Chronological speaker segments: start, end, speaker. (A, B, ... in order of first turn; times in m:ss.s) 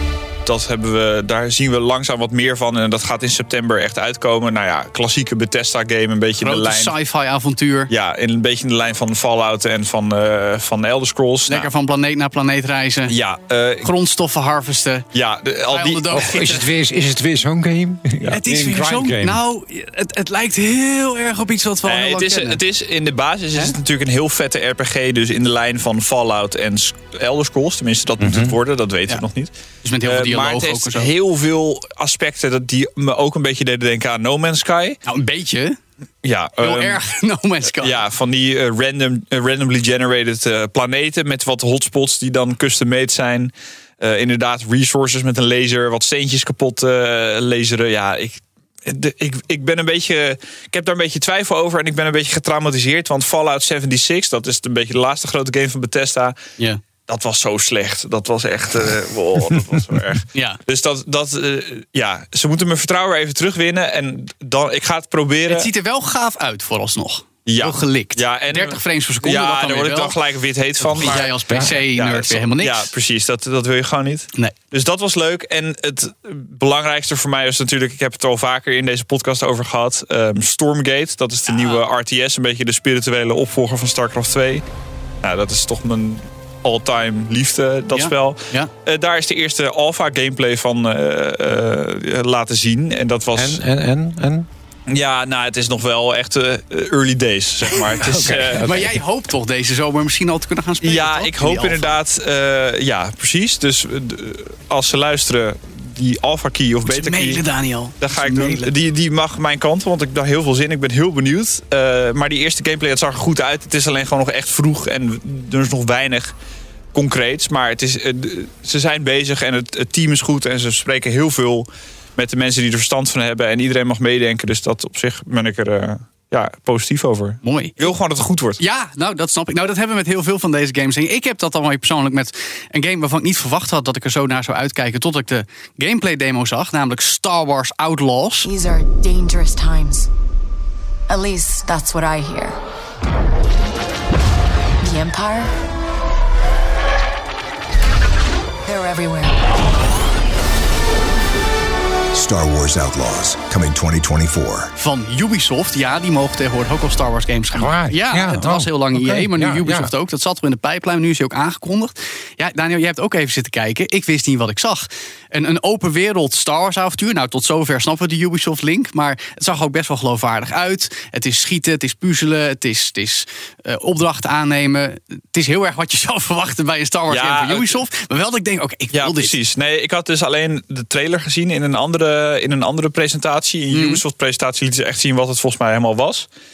0:00.4-0:06.9 A
0:06.4-0:07.9 B
0:07.9-0:11.7 A
0:11.5-0:13.1 B
0:13.0-0:13.9 A
0:13.8-0:15.0 B
0:15.1-0:16.2 A
0:15.7-0:16.7 B
0:16.1-0:19.4 C
0:18.3-0:22.6 B
0:21.8-0:29.5 A
0:28.2-0:28.6 C
0:29.8-0:31.1 B
0:30.0-0:35.0 A
0:35.0-0:35.8 B
0:36.2-0:37.0 A
0:36.6-0:38.0 B
0:37.8-0:56.4 A
0:57.1-1:05.7 A
1:00.3-1:00.6 B
1:05.5-1:10.2 B
1:07.4-1:24.6 A
1:10.8-1:12.9 B
1:21.5-1:21.8 B
1:25.2-1:33.6 A
1:27.9-1:28.7 B
1:33.3-1:34.5 C
1:34.9-1:38.7 A
1:38.0-1:38.9 C
1:38.1-1:42.0 B
1:40.8-1:47.4 A
1:46.8-1:48.7 B
1:48.0-1:56.3 A
1:56.9-2:08.6 A
2:07.4-2:07.9 B
2:08.6-2:18.5 B
2:18.4-2:20.1 D
2:21.1-2:22.6 D
2:24.8-2:25.5 D
2:28.6-2:29.4 D
2:32.1-2:34.7 E
2:34.8-2:59.3 B
2:37.5-2:39.9 C
2:57.1-2:57.8 A
2:58.9-3:06.3 A
3:03.7-3:04.0 B